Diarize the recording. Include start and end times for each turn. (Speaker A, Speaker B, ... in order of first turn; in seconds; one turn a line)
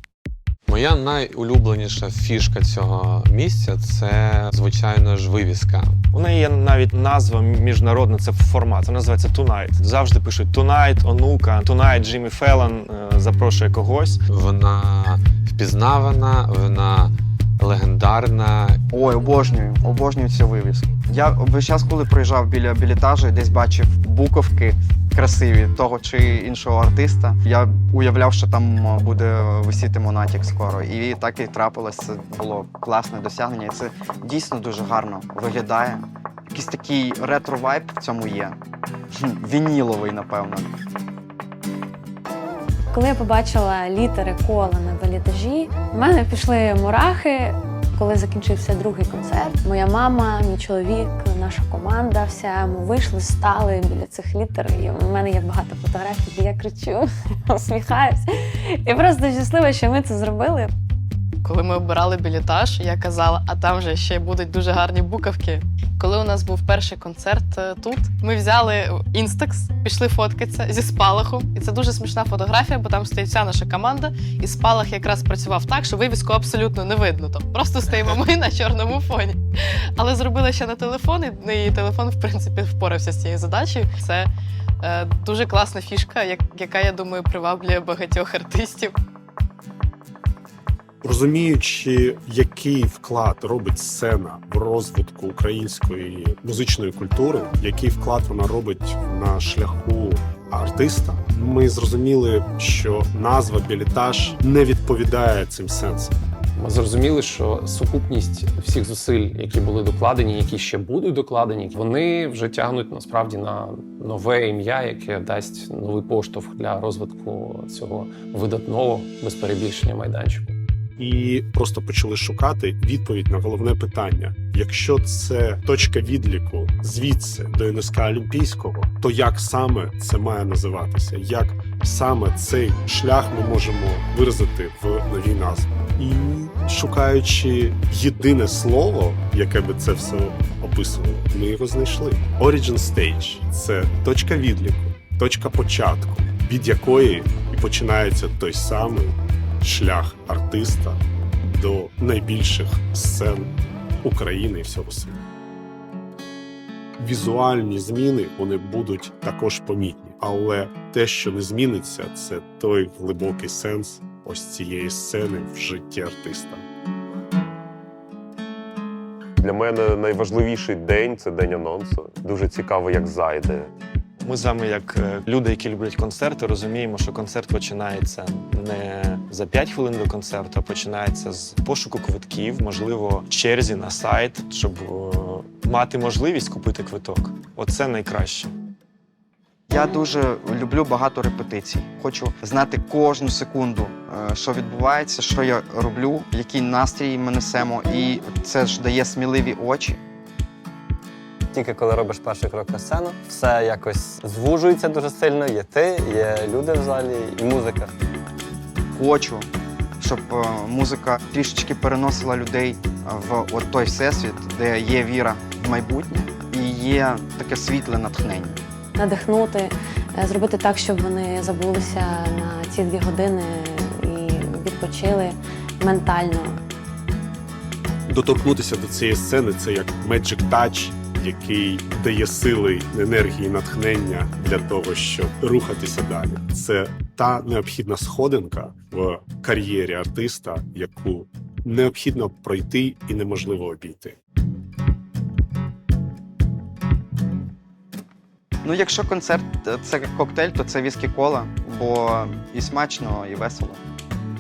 Speaker A: 0.7-6.0
Speaker B: 6.1-14.2
Speaker A: 14.3-18.8
Speaker C: 18.9-38.6
Speaker C: 39.1-40.7
Speaker D: 42.9-60.7
Speaker E: 61.4-79.4
Speaker E: 80.0-84.3
Speaker E: 84.8-88.9
Speaker F: 91.0-106.1
Speaker G: 106.6-120.5
Speaker F: 121.0-155.2
Speaker F: 157.0-166.6
Speaker H: 169.4-173.7
Speaker B: 174.2-188.5
Speaker C: 189.7-200.0
Speaker I: 201.5-207.9
Speaker C: 208.9-209.5
Speaker C: 210.0-218.6
Speaker D: 219.0-226.6
Speaker F: 228.1-244.2
Speaker C: 248.6-253.8